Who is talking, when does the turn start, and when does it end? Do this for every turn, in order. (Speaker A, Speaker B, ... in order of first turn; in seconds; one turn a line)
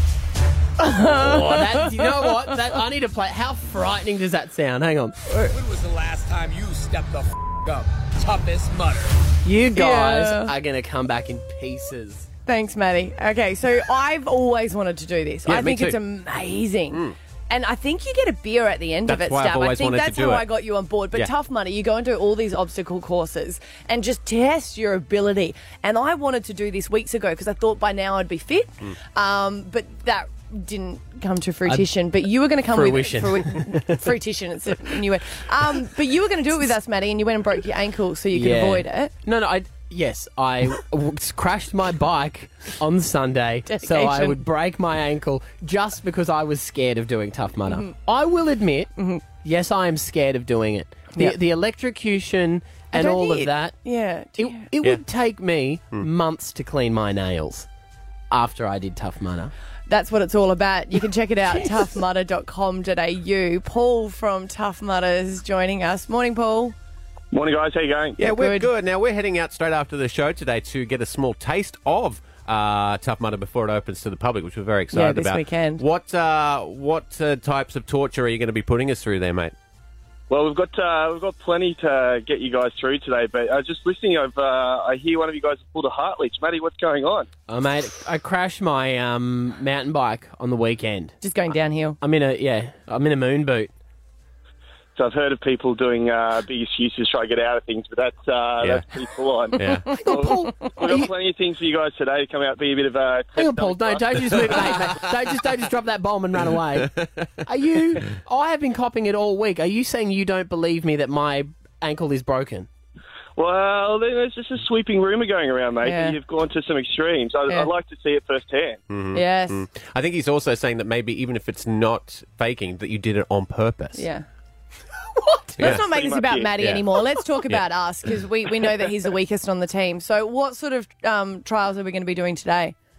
Speaker A: 0.8-2.3
Speaker B: 1.0-5.2
Speaker C: 5.5-9.2
Speaker B: 9.4-12.3
Speaker A: 9.7-10.5
Speaker A: 12.4-39.1
Speaker D: 15.5-16.0
Speaker D: 19.1-20.5
Speaker B: 31.6-31.9
Speaker B: 32.6-34.1
Speaker B: 38.3-53.7
Speaker A: 43.7-44.4
Speaker A: 49.0-49.2
Speaker A: 52.9-54.7
Speaker B: 54.4-57.7
Speaker B: 58.3-59.5
Speaker A: 59.9-66.7
Speaker E: 67.3-68.2
Speaker D: 68.2-79.5
Speaker A: 68.2-68.7
Speaker A: 74.9-75.8
Speaker E: 80.3-87.3
Speaker B: 87.5-91.2
Speaker A: 91.2-92.0
Speaker B: 92.0-93.7
Speaker E: 95.0-104.6
Speaker D: 98.6-98.9
Speaker D: 99.5-99.9
Speaker B: 99.9-101.1
Speaker B: 103.3-112.7
Speaker D: 104.6-105.2
Speaker D: 106.7-107.4
Speaker E: 113.4-118.8
Speaker A: 115.8-116.2
Speaker D: 118.9-124.1
Speaker A: 119.1-119.7
Speaker A: 123.9-124.2
Speaker A: 125.2-132.7
Speaker D: 125.6-125.8
Speaker E: 125.6-126.5
Speaker D: 126.6-126.8